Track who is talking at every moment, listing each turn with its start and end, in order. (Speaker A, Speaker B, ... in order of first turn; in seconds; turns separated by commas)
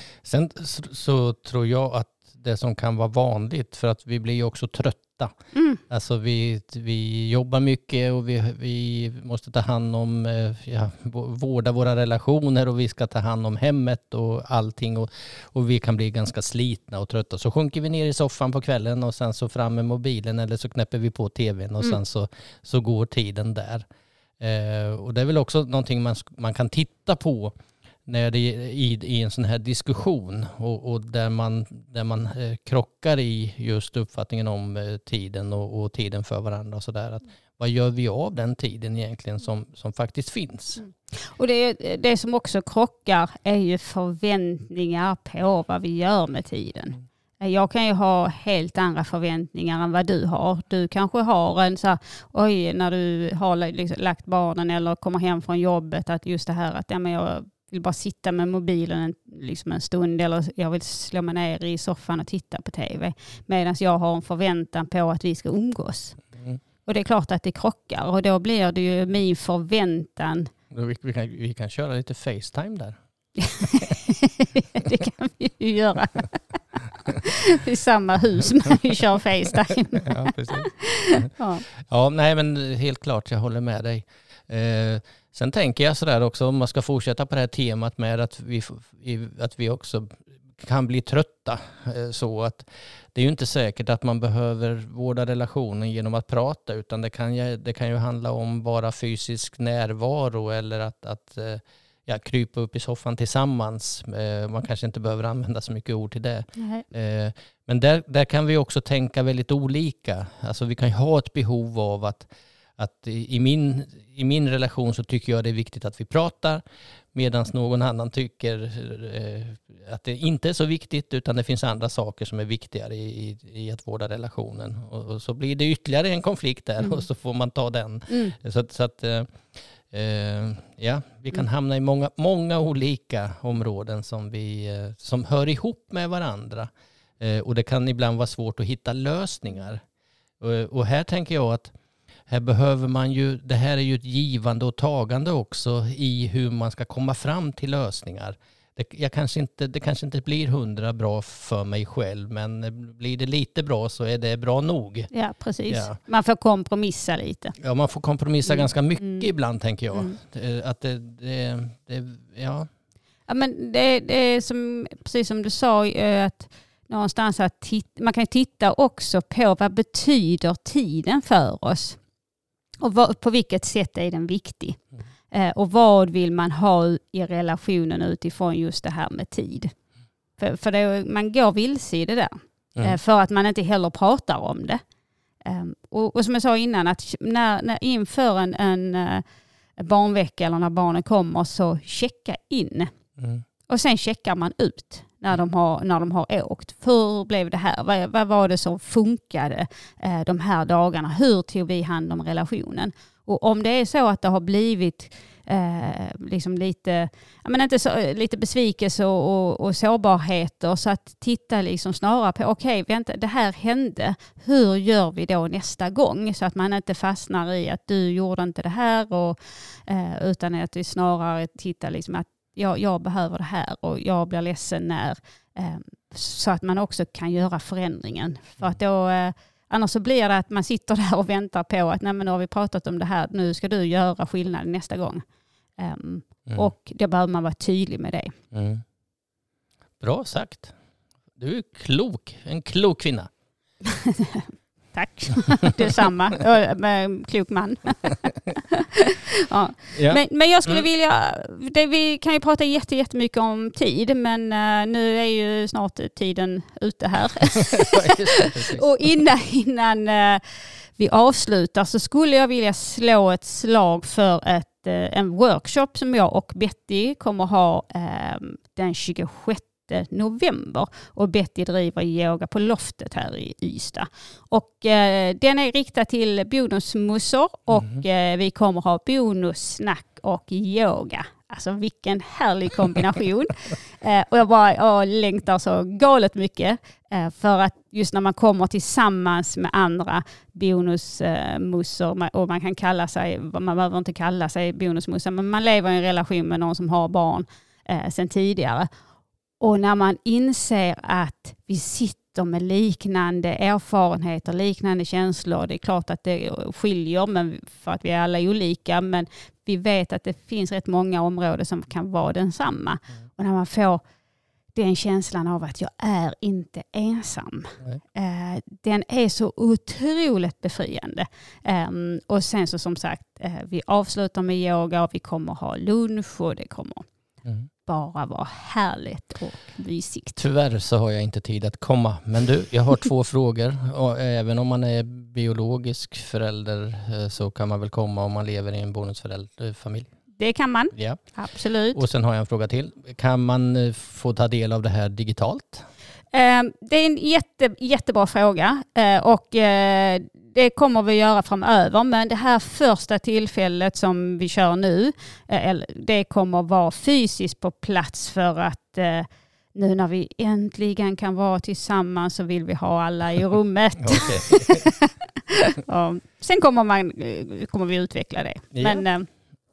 Speaker A: 0.2-5.3, Speaker B: 5.5-5.8, Speaker A: 5.9-23.8, Speaker A: 24.4-27.5, Speaker A: 28.1-40.8, Speaker B: 40.8-66.2, Speaker B: 66.8-70.5, Speaker A: 70.7-73.0, Speaker B: 73.4-81.6, Speaker A: 80.0-81.3, Speaker A: 81.8-116.6, Speaker B: 106.6-106.8, Speaker A: 117.1-139.8, Speaker B: 128.1-128.3, Speaker A: 140.4-141.7, Speaker A: 142.3-155.1, Speaker B: 155.1-157.5, Speaker A: 155.7-156.0, Speaker A: 157.6-162.7, Speaker B: 158.4-159.3, Speaker B: 159.9-160.2, Speaker B: 163.3-172.0, Speaker B: 172.8-179.7, Speaker B: 180.4-184.8, Speaker B: 185.4-189.2, Speaker B: 189.8-192.9, Speaker A: 193.2-193.4, Speaker B: 193.7-235.2, Speaker B: 235.8-238.3, Speaker A: 238.5-238.8, Speaker A: 240.0-240.7, Speaker A: 241.3-243.3, Speaker B: 243.8-260.4, Speaker A: 249.9-250.8, Speaker A: 257.6-258.9, Speaker B: 261.0-298.9, Speaker B: 299.6-314.0, Speaker B: 314.7-327.0, Speaker B: 327.9-330.4, Speaker A: 330.4-340.1, Speaker B: 340.4-342.0, Speaker A: 340.9-341.3, Speaker A: 341.9-345.8, Speaker B: 346.3-369.3, Speaker A: 364.0-364.9, Speaker A: 368.7-369.0